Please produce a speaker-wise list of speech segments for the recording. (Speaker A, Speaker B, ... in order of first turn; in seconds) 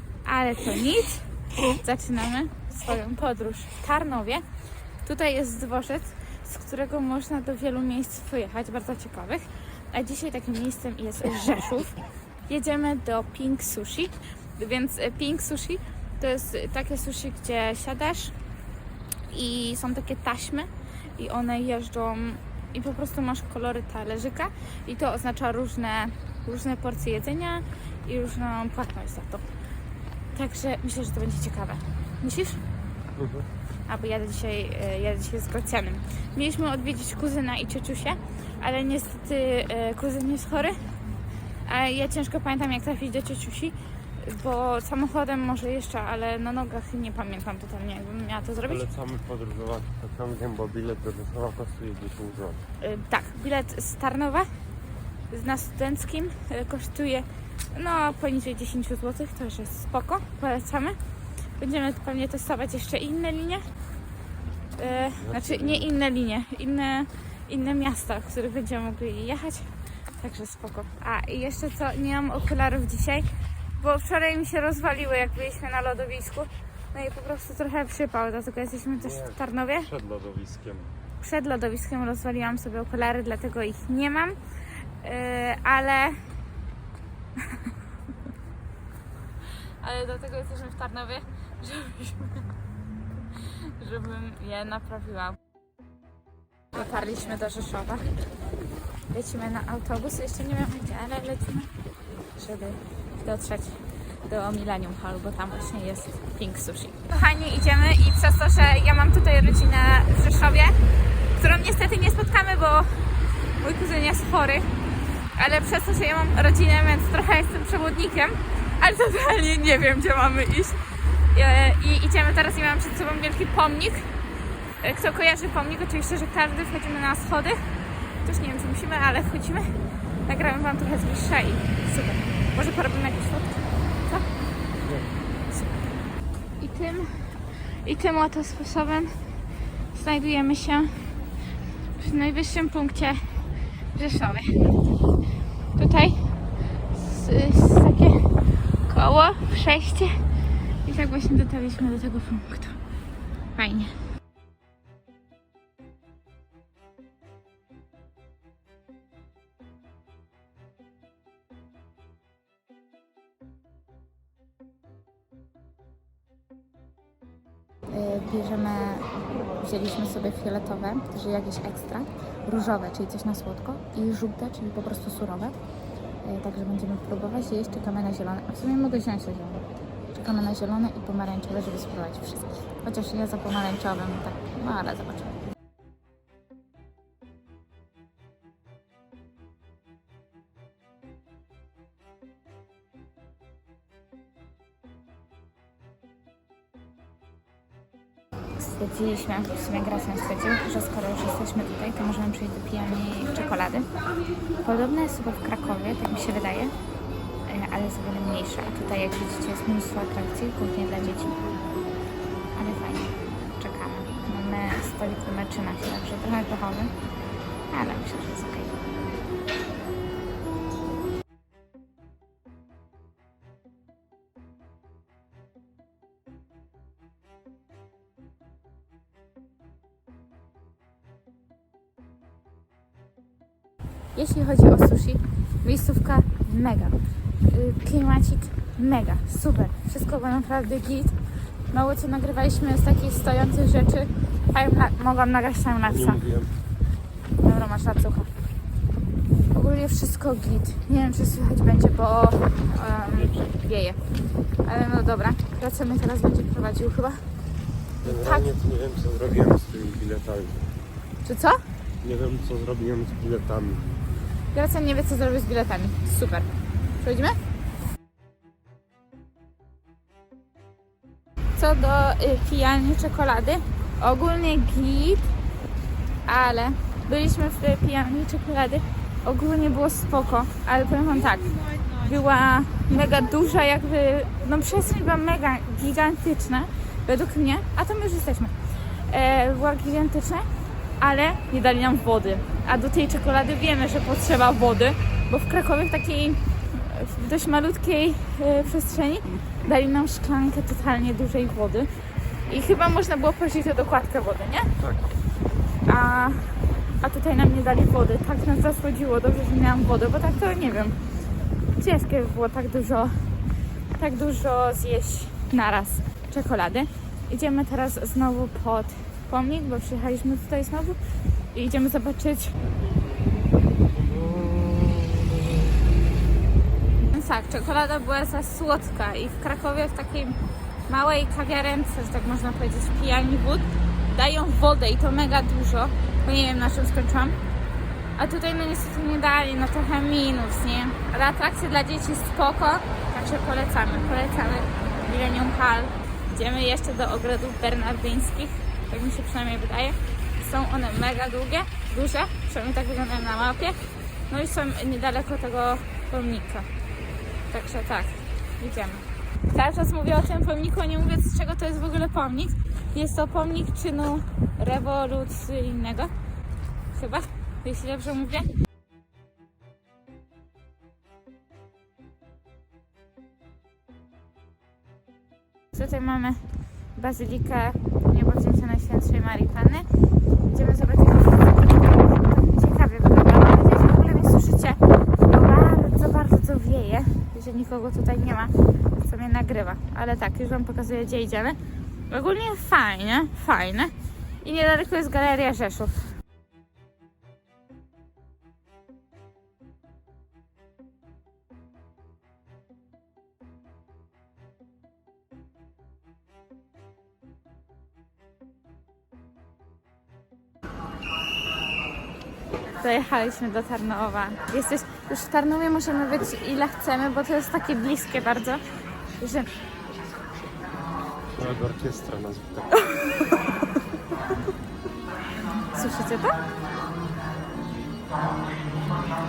Speaker A: 0.2-4.5, 5.0-18.3, 19.3-29.4, 30.3-32.6, 33.9-40.8, 41.7-48.9, 52.8-54.5, 55.3-61.0, 61.6-63.6, 64.8-79.9, 81.2-86.4, 87.4-87.7, 89.8-92.5, 93.4-95.4, 96.7-98.1, 99.1-101.7, 102.3-110.8, 111.3-114.7, 115.3-124.2, 124.8-127.7, 128.2-134.2, 136.6-141.3, 142.0-144.7, 145.8-146.4, 146.9-150.2, 150.8-152.8, 153.6-153.9, 167.9-175.6, 176.2-185.4, 198.6-203.9, 204.6-206.7, 207.5-211.4, 212.6-216.9, 217.7-218.8, 234.2-241.2, 241.7-246.2, 247.4-248.3, 249.5-254.0, 254.6-257.2, 258.0-258.5, 261.2-261.6, 264.5-266.5, 267.0-267.4, 271.6-275.3, 276.2-290.5, 291.0-304.7, 305.8-311.0, 311.8-313.4, 313.9-321.0, 321.5-322.5, 327.1-337.4, 338.2-356.7, 357.5-366.1, 366.9-368.5, 375.7-379.9, 380.4-391.6, 392.1-396.2, 412.8-418.6, 419.2-419.5, 422.8-423.4, 425.7-426.4
Speaker B: 33.2-33.5, 48.6-52.6, 65.2-65.9, 79.0-81.0, 245.8-246.6, 253.1-253.5, 258.0-260.7, 262.0-263.9, 304.8-305.1, 323.9-325.7, 421.4-422.9